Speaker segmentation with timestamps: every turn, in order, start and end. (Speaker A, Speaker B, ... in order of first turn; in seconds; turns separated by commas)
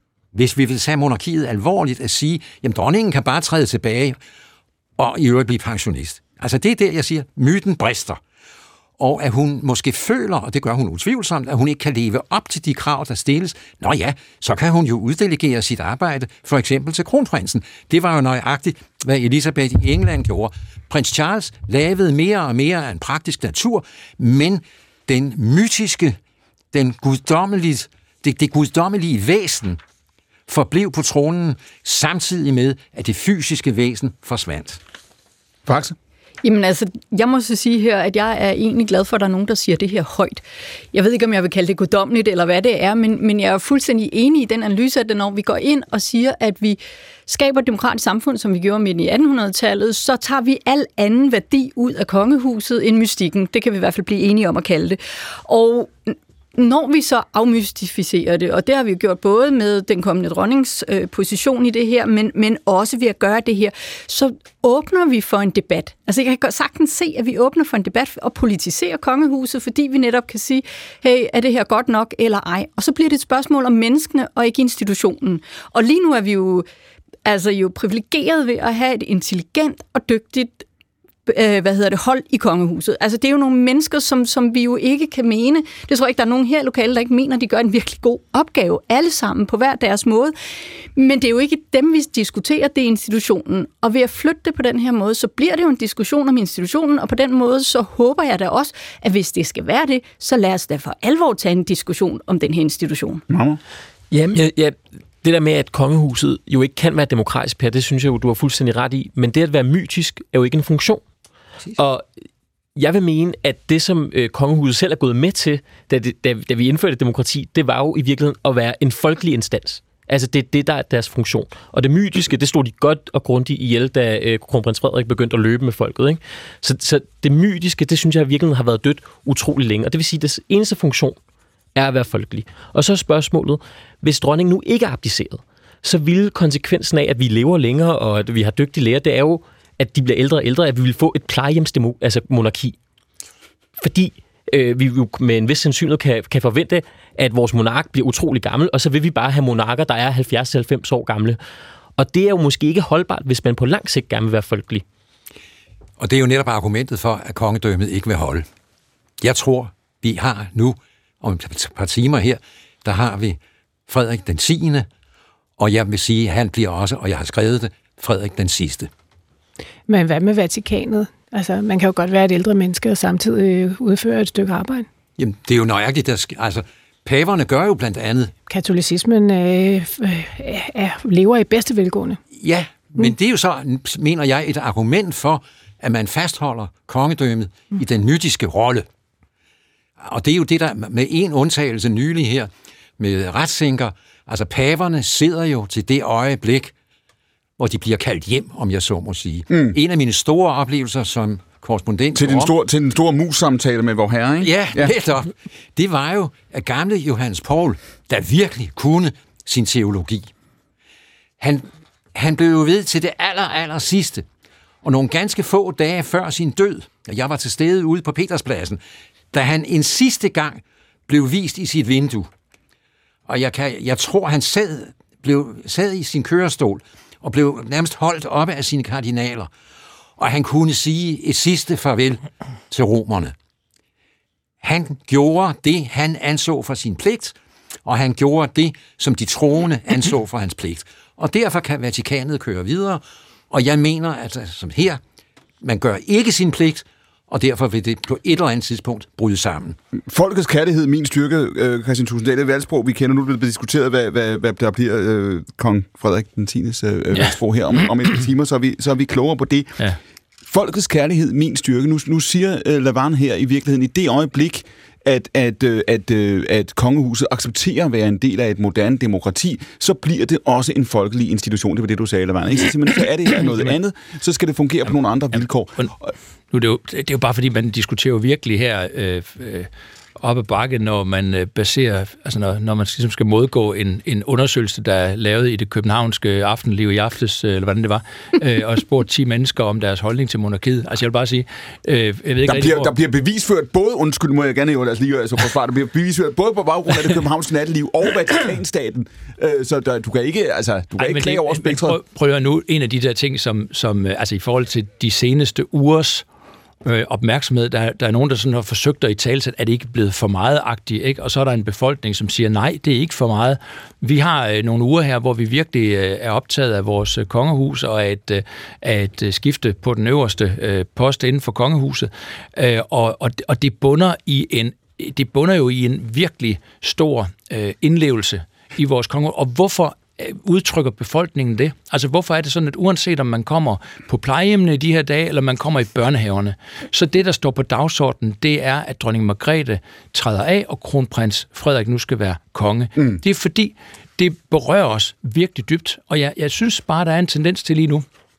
Speaker A: 0.3-4.2, Speaker A: 5.0-8.2, Speaker A: 9.0-26.2, Speaker A: 26.7-29.8, Speaker A: 30.5-34.8, Speaker B: 35.7-35.9, Speaker C: 36.4-76.7, Speaker C: 77.2-80.6, Speaker C: 81.3-90.3, Speaker C: 91.0-103.2, Speaker B: 103.3-103.6, Speaker D: 104.1-111.0, Speaker D: 111.7-112.0, Speaker D: 112.7-131.2, Speaker D: 131.7-142.8, Speaker D: 143.8-151.4, Speaker D: 152.0-154.8, Speaker A: 156.0-158.4, Speaker A: 159.2-164.8, Speaker A: 165.6-168.9, Speaker E: 169.9-174.9, Speaker A: 175.2-178.3, Speaker E: 178.5-182.2, Speaker A: 182.4-188.8, Speaker A: 190.0-196.7, Speaker A: 197.6-202.5, Speaker B: 199.5-199.8, Speaker B: 202.1-204.9, Speaker A: 204.4-210.3, Speaker A: 211.4-214.2, Speaker A: 214.8-218.8, Speaker A: 219.3-222.3, Speaker A: 223.3-229.5, Speaker A: 230.2-233.3, Speaker A: 234.6-245.0, Speaker A: 245.6-249.8, Speaker B: 250.1-259.8, Speaker B: 260.5-276.1, Speaker F: 276.5-279.7, Speaker F: 280.2-292.9, Speaker B: 292.4-302.0, Speaker F: 301.0-306.2, Speaker F: 306.8-348.0